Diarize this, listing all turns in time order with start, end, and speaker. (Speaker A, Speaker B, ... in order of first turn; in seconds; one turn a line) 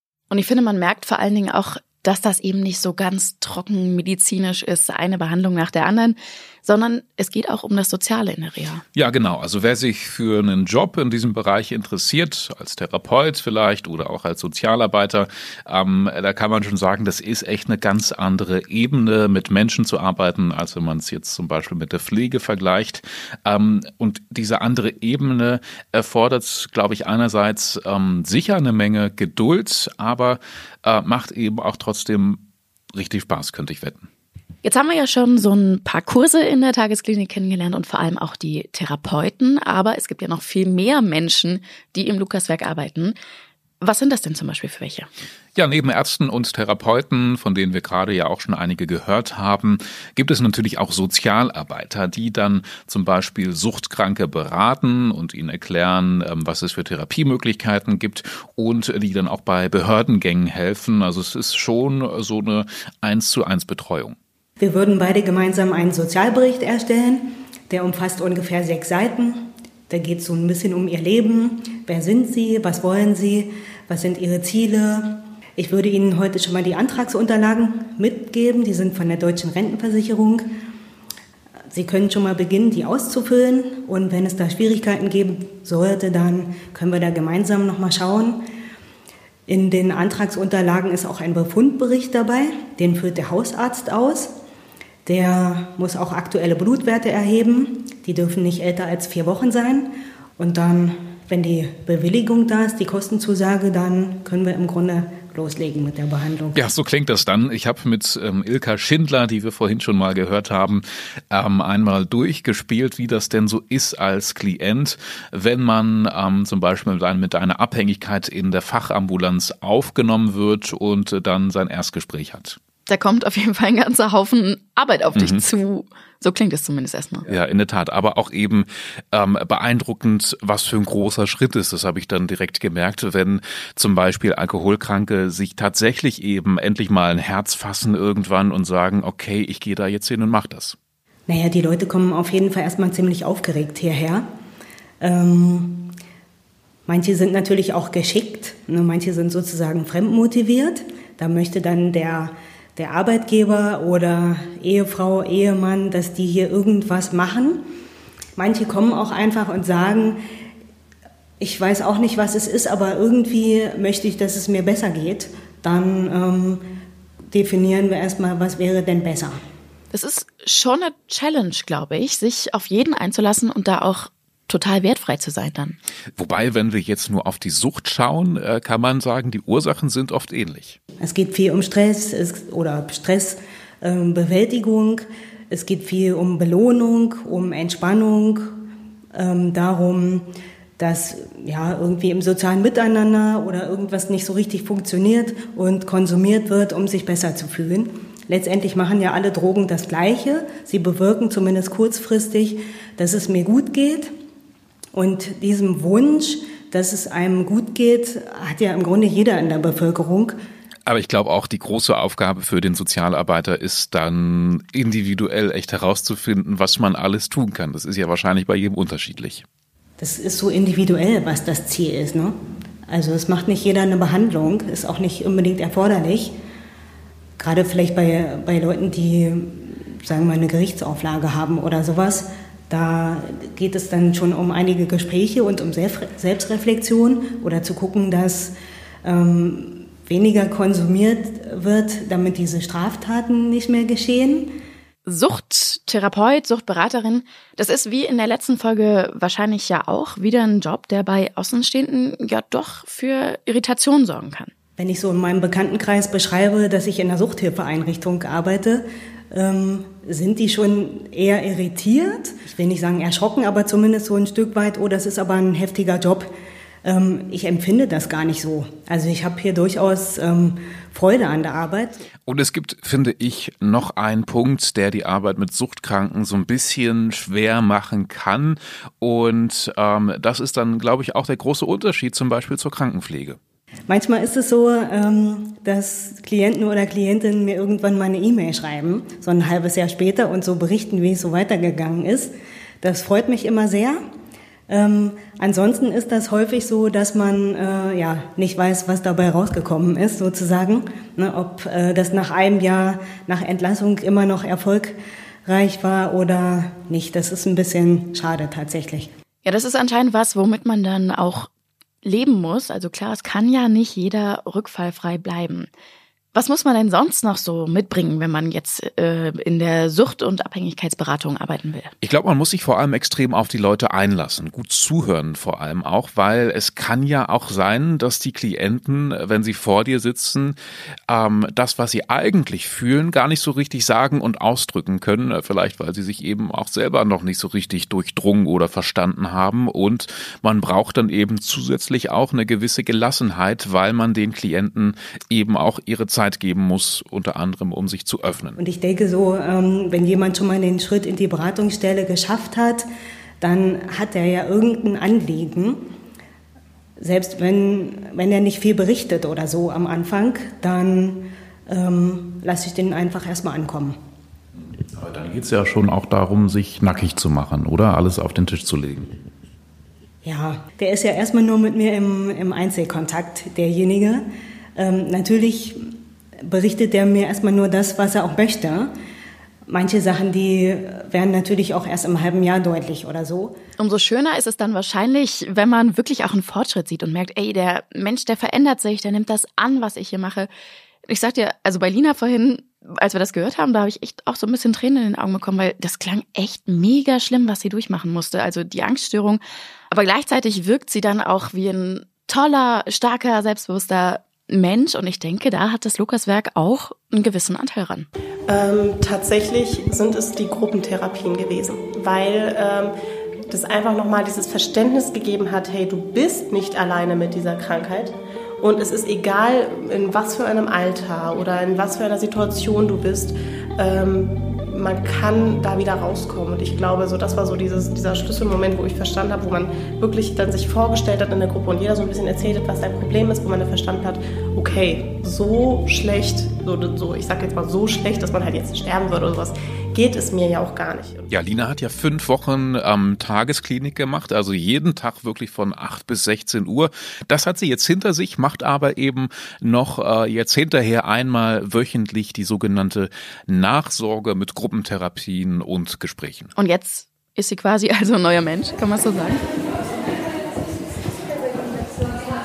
Speaker A: 0.3-8.8
Speaker B: 8.9-34.1
Speaker A: 34.6-43.2
Speaker A: 43.8-45.1
Speaker B: 45.5-64.2
Speaker C: 64.6-80.5
Speaker C: 81.7-88.5
Speaker C: 89.5-94.3
Speaker C: 95.0-106.6
Speaker B: 106.5-122.6
Speaker A: 122.9-127.3
Speaker B: 125.2-125.4
Speaker B: 127.3-140.8
Speaker C: 141.3-144.3
Speaker C: 145.0-145.9
Speaker C: 146.8-157.7
Speaker C: 158.3-160.2
Speaker C: 161.4-166.7
Speaker C: 167.3-169.4
Speaker A: 169.9-175.8
Speaker B: 176.2-180.8
Speaker C: 181.0-188.6
Speaker C: 189.1-204.1
Speaker C: 204.9-210.3
Speaker B: 210.8-219.4
Speaker C: 220.0-226.3
Speaker C: 227.4-244.6
Speaker A: 245.1-254.5
Speaker C: 254.8-266.3
Speaker C: 266.8-272.0
Speaker B: 272.3-283.4
Speaker C: 283.9-294.0
Speaker C: 294.7-309.1
Speaker A: 309.4-311.5
Speaker A: 312.0-315.7
Speaker A: 316.3-321.9
Speaker B: 322.0-330.6
Speaker B: 331.1-348.6
Speaker C: 348.6-352.9
Speaker C: 353.4-355.9
Speaker C: 357.0-364.0
Speaker B: 364.8-369.2
Speaker C: 370.2-374.2
Speaker C: 374.8-375.9
Speaker C: 376.4-378.9
Speaker C: 379.7-383.6
Speaker A: 383.8-390.5
Speaker A: 391.1-408.1
Speaker D: 408.5-412.9
Speaker D: 413.5-441.3
Speaker B: 441.3-456.5
Speaker A: 456.6-459.4